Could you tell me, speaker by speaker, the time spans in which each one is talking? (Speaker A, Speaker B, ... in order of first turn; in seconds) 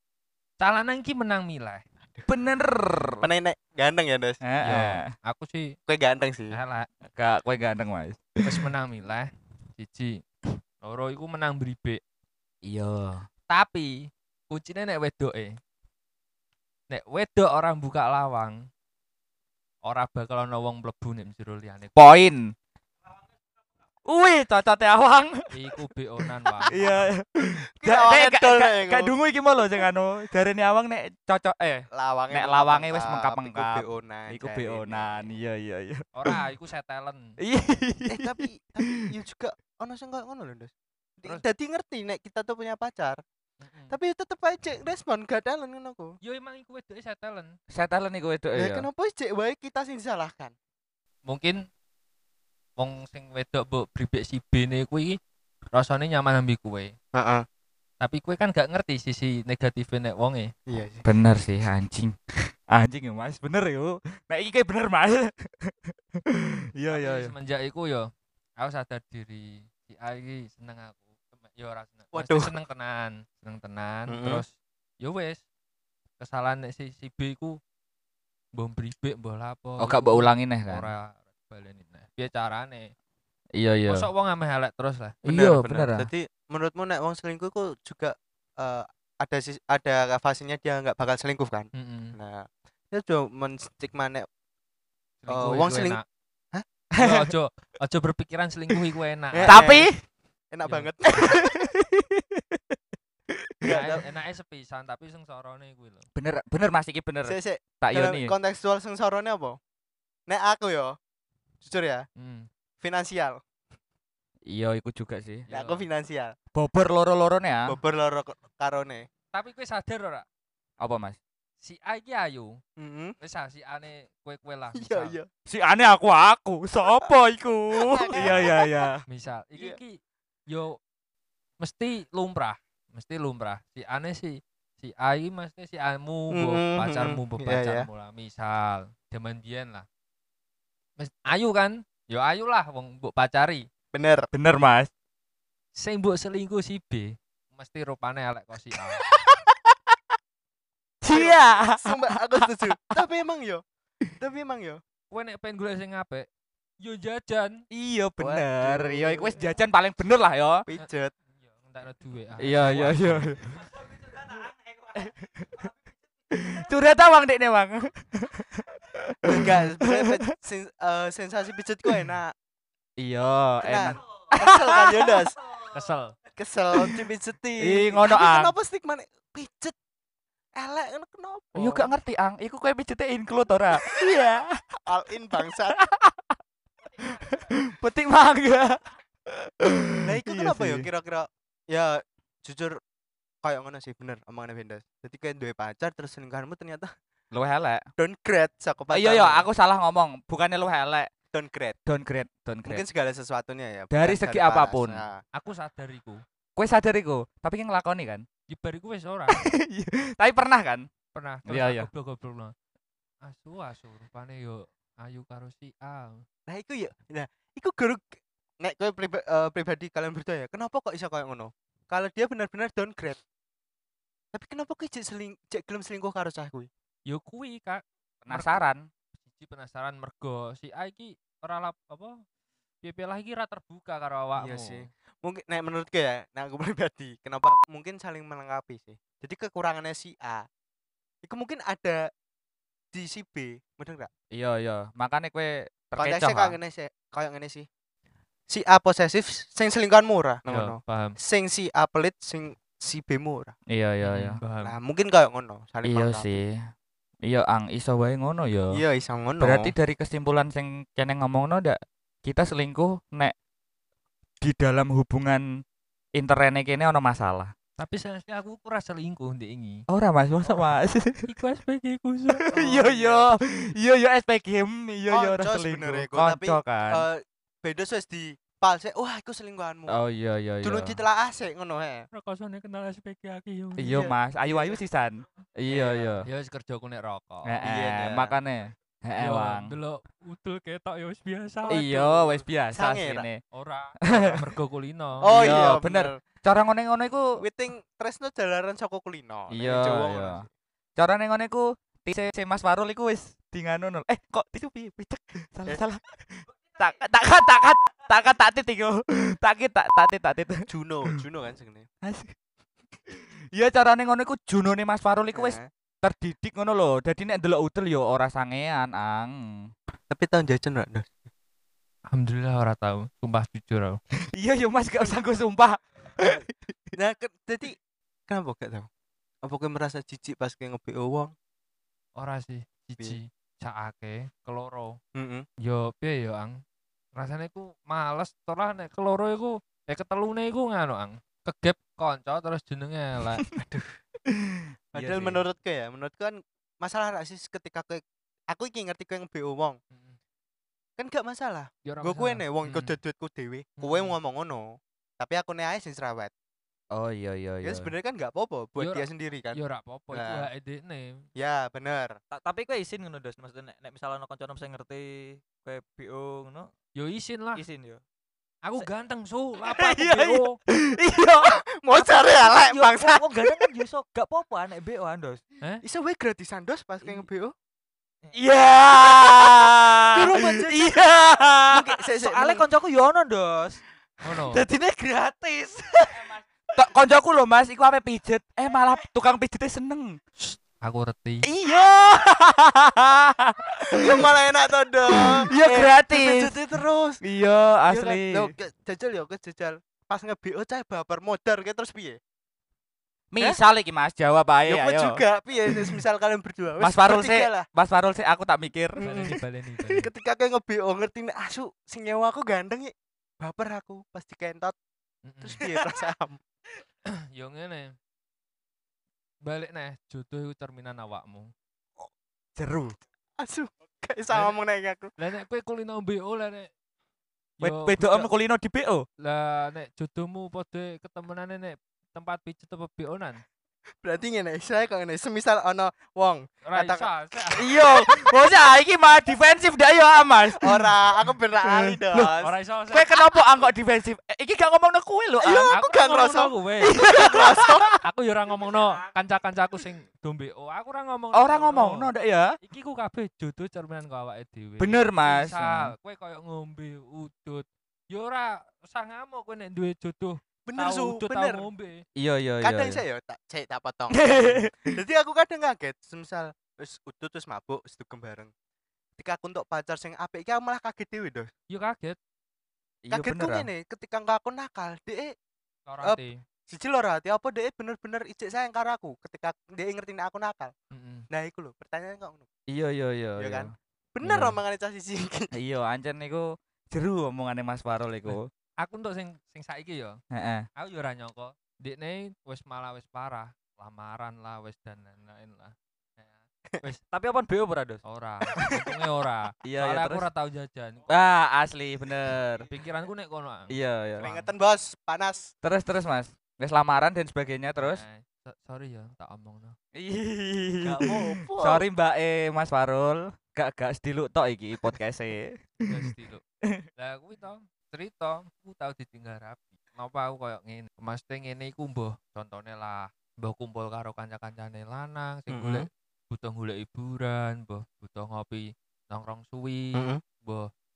Speaker A: 0.6-1.8, 4.6-5.7, 6.5-6.9, 8.4-10.2, 10.8-12.0, 13.5-15.6, 16.9-18.6, 19.8-21.9, 25.5-26.9, 36.1-37.3, 43.6-44.0, 46.2-47.5, 51.3-51.6, 52.8-55.2, 55.7-56.9, 58.0-60.5, 66.9-68.0, 68.6-74.5, 75.0-75.4, 76.2-77.5, 78.5-82.9, 83.9-85.2, 91.7-92.2, 95.2-96.0, 97.0-99.6, 100.6-100.9, 103.7-106.1, 112.2-112.5, 115.5-115.8, 119.3-120.2, 121.6-122.6, 123.2-125.1, 129.1-130.0, 130.5-130.8, 131.6-139.8, 141.0-143.6, 145.8-149.0, 155.1-156.3, 156.8-157.6, 160.7-163.6, 175.7-176.1, 205.3-206.2, 208.5-209.4, 211.1-212.5, 213.2-216.2, 227.1-228.6, 229.3-232.2, 232.8-234.9, 250.4-251.2, 254.0-254.7, 267.8-269.8, 271.2-272.5, 282.1-284.0, 286.2-287.6, 289.2-292.3, 293.5-295.7, 322.1-324.0, 332.1-335.0, 335.6-336.6, 337.1-343.4, 349.9-350.2, 351.8-353.0, 353.8-354.1, 358.8-361.2, 366.9-367.6, 368.6-370.6, 384.2-384.6, 390.4-391.4, 409.0-410.1, 415.2-415.6, 417.3-417.9, 419.4-421.5, 425.2-426.7, 427.6-428.3, 429.2-433.4, 436.6-437.7, 442.1-443.1, 445.7-447.0, 448.0-452.1, 452.6-462.0, 471.7-472.2, 475.9-476.4, 480.9-481.3, 488.3-490.2, 490.8-497.0, 498.0-501.0, 502.7-504.5, 507.8-509.8, 515.8-516.4, 517.0-530.7
Speaker B: 2.3-3.2, 4.4-5.1, 7.1-8.2, 12.6-13.2, 21.9-22.5, 24.1-25.5, 26.6-36.4, 37.4-38.9, 47.7-48.9, 61.0-67.3, 79.8-80.9, 83.6-84.1, 85.2-86.1, 97.0-97.3, 99.5-99.9, 101.2-102.6, 103.6-104.0, 106.2-108.3, 114.5-115.5, 116.5-117.8, 120.8-121.2, 125.5-129.0, 144.3-144.9, 151.0-152.9, 157.7-160.6, 162.4-165.7, 166.3-170.2, 173.0-175.3, 176.7-177.0, 177.6-178.5, 181.6-184.6, 185.4-186.3, 187.0-190.9, 197.3-197.8, 198.9-201.1, 201.8-202.8, 203.9-205.0, 206.6-208.2, 209.3-210.8, 211.4-211.9, 228.2-228.8, 244.3-246.6, 253.7-254.4, 255.8-256.5, 257.3-258.8, 259.4-263.3, 264.4-265.4, 266.2-267.5, 269.9-271.3, 272.3-277.1, 279.9-281.0, 283.8-286.3, 287.4-289.7, 291.7-293.4, 294.1-294.4, 295.2-297.3, 299.5-300.4, 301.0-310.6, 312.0-312.3, 313.1-319.4, 324.4-326.7, 344.3-345.4, 356.9-357.9, 369.7-371.6, 378.3-381.9, 386.7-390.2, 391.4-394.3, 395.1-396.6, 397.2-398.5, 403.3-405.2, 405.7-406.0, 406.8-409.4, 422.6-423.0, 427.6-429.0, 437.6-440.9, 441.6-442.3, 442.9-445.7, 446.8-448.0, 451.3-452.5, 454.8-455.9, 462.2-463.0, 464.1-464.9, 473.0-473.7, 482.7-483.7, 484.2-484.6, 485.5-488.5, 490.3-490.6, 499.6-500.2, 501.1-502.6, 503.7-504.3, 505.6-508.0, 509.9-516.1
Speaker C: 3.2-4.4, 5.9-6.6, 27.8-29.1, 31.9-35.3, 38.1-43.2, 43.9-46.2, 48.5-50.5, 57.1-57.4, 60.7-61.0, 72.1-72.5, 74.1-74.4, 85.2-94.2, 95.3-96.0, 99.3-99.9, 100.5-101.5, 103.6-104.0, 107.2-109.6, 110.3-111.0, 111.6-112.1, 112.8-113.4, 115.5-116.3, 117.7-119.1, 122.8-123.2, 124.7-125.3, 127.7-128.9, 136.3-137.9, 143.9-144.3, 151.1-153.6, 154.2-154.8, 158.2-159.4, 160.7-161.1, 169.2-172.3, 173.6-175.4, 176.3-179.7, 180.5-181.9, 184.8-185.8, 190.1-192.8, 193.4-196.9, 198.0-199.4, 201.3-201.8, 202.7-205.2, 216.5-223.2, 224.3-226.7, 234.4-240.5, 241.2-242.1, 242.9-244.1, 246.0-247.7, 248.5-253.5, 254.6-256.3, 258.7-259.7, 272.5-273.3, 275.1-280.0, 280.6-282.1, 283.9-284.8, 285.7-286.2, 287.6-288.3, 291.7-292.1, 292.7-293.3, 295.2-296.2, 297.4-300.5, 310.7-311.9, 315.3-315.7, 320.1-321.2, 326.9-328.9, 329.4-331.3, 335.1-335.4, 343.6-343.9, 344.9-349.8, 351.0-356.3, 357.6-359.6, 360.1-360.5, 361.4-362.2, 371.4-373.6, 375.8-377.5, 380.1-380.9, 381.7-382.6, 393.9-397.2, 397.9-402.2, 404.7-407.7, 409.0-414.7, 415.4-416.4, 423.4-425.1, 434.0-438.2, 440.6-442.5, 445.4-447.9, 460.7-461.7, 462.6-468.5, 469.2-471.5, 473.1-475.3, 476.0-480.7, 481.3-482.5, 483.4-485.5, 504.2-505.5, 510.8-511.8, 525.5-525.9, 529.9-530.2
Speaker D: 362.3-366.7, 367.5-368.0, 371.9-375.4, 379.2-379.5, 382.1-383.8, 384.4-386.4, 497.1-498.0